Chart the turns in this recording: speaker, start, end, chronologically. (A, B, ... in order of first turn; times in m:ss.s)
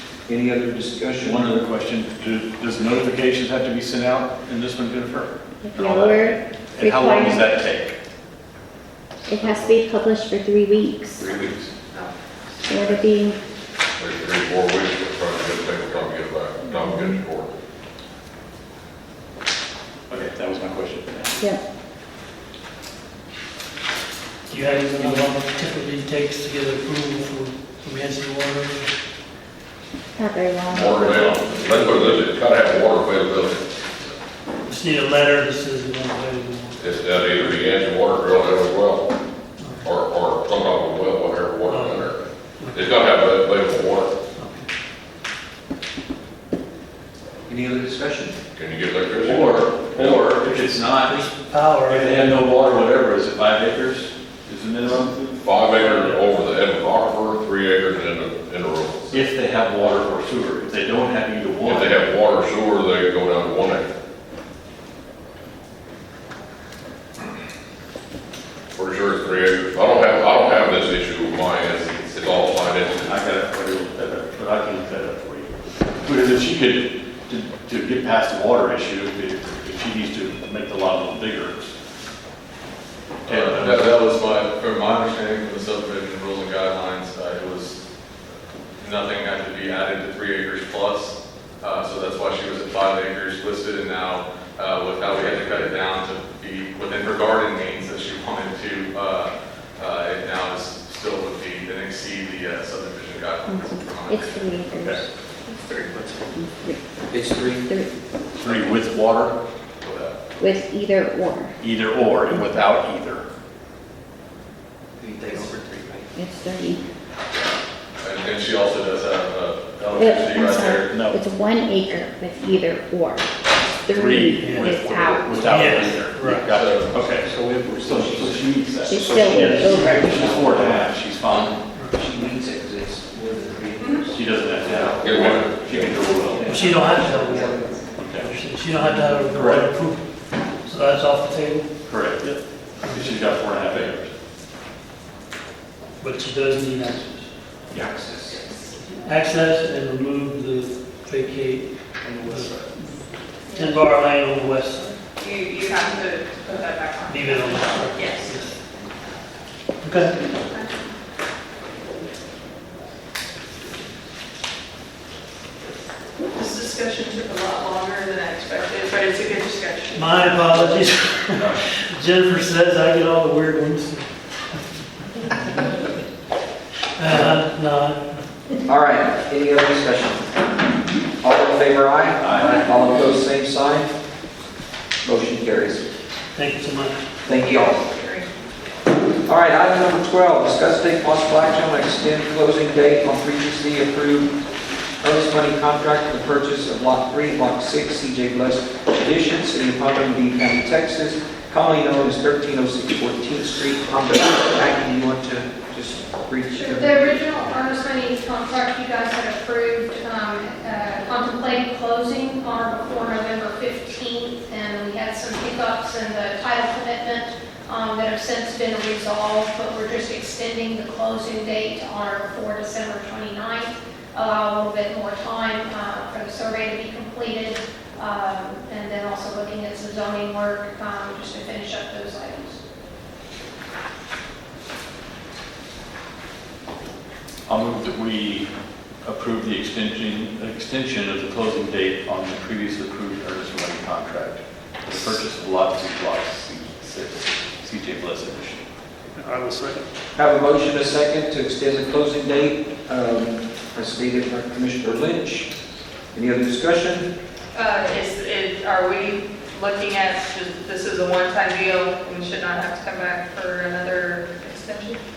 0:00.2-0:01.6 A
0:01.2-0:07.9 B
0:05.6-0:07.5 C
0:09.3-0:11.3 C
0:11.2-0:11.7 B
0:12.6-0:13.4 C
0:14.0-0:17.5 D
0:16.8-0:17.1 C
0:20.1-0:21.4 B
0:24.5-0:28.9 E
0:25.0-0:25.2 B
0:30.2-0:30.9 C
0:30.7-0:34.1 D
0:30.7-0:32.2 B
0:34.7-0:37.7 E
0:36.8-0:39.1 D
0:39.6-0:39.9 E
0:39.8-0:44.1 D
0:41.7-0:43.0 E
0:44.4-0:44.7 E
0:47.5-0:48.4 A
0:48.5-0:50.4 D
0:49.2-0:51.3 B
0:51.0-0:52.3 E
0:51.8-0:55.4 B
0:55.4-0:59.2 D
0:55.8-0:56.2 E
0:59.1-1:02.1 B
1:01.6-1:03.9 D
1:08.8-1:13.1 D
1:13.0-1:15.5 B
1:16.0-1:21.7 B
1:23.2-1:27.8 F
1:23.2-1:23.9 B
1:28.8-1:44.9 F
1:43.5-1:45.0 C
1:45.6-1:46.8 C
1:47.1-1:47.7 A
1:47.6-1:47.9 C
1:48.4-1:49.4 B
1:49.8-1:50.2 F
1:50.4-1:51.6 C
1:51.6-1:53.2 B
1:55.0-1:56.1 A
1:56.1-1:56.8 C
1:58.0-2:00.9 F
1:59.9-2:03.3 C
2:00.9-2:01.2 B
2:03.8-2:05.6 C
2:03.9-2:11.6 B
2:04.4-2:04.8 E
2:05.4-2:06.5 E
2:06.2-2:06.9 D
2:07.4-2:10.8 A
2:08.8-2:10.4 C
2:09.4-2:10.1 E
2:11.7-2:12.0 E
2:11.9-2:15.4 A
2:14.1-2:16.5 B
2:15.0-2:16.0 D
2:16.3-2:17.9 A
2:16.4-2:20.1 E
2:18.0-2:18.3 B
2:19.3-2:19.7 B
2:20.6-2:21.7 E
2:21.9-2:24.1 B
2:22.3-2:23.2 E
2:26.0-2:27.3 E
2:27.7-2:28.4 A
2:28.2-2:28.7 G
2:28.8-2:35.0 E
2:32.0-2:32.7 A
2:33.5-2:33.9 G
2:35.2-2:39.2 G
2:37.0-2:38.6 E
2:39.8-2:40.2 E
2:40.0-2:40.9 G
2:46.3-2:50.9 G
2:49.9-2:54.6 E
2:55.2-2:55.6 E
2:57.0-2:58.0 E
2:57.1-2:57.4 A
2:58.7-3:00.3 A
3:01.2-3:03.9 A
3:02.2-3:02.6 B
3:05.0-3:05.9 A
3:06.3-3:07.0 E
3:07.2-3:07.8 A
3:07.3-3:08.3 G
3:09.2-3:14.3 A
3:15.0-3:27.1 A
3:26.5-3:52.6 H
3:57.5-3:58.5 B
3:59.0-4:08.6 B
4:09.2-4:09.8 E
4:10.2-4:15.5 A
4:16.1-4:17.1 A
4:17.5-4:25.0 G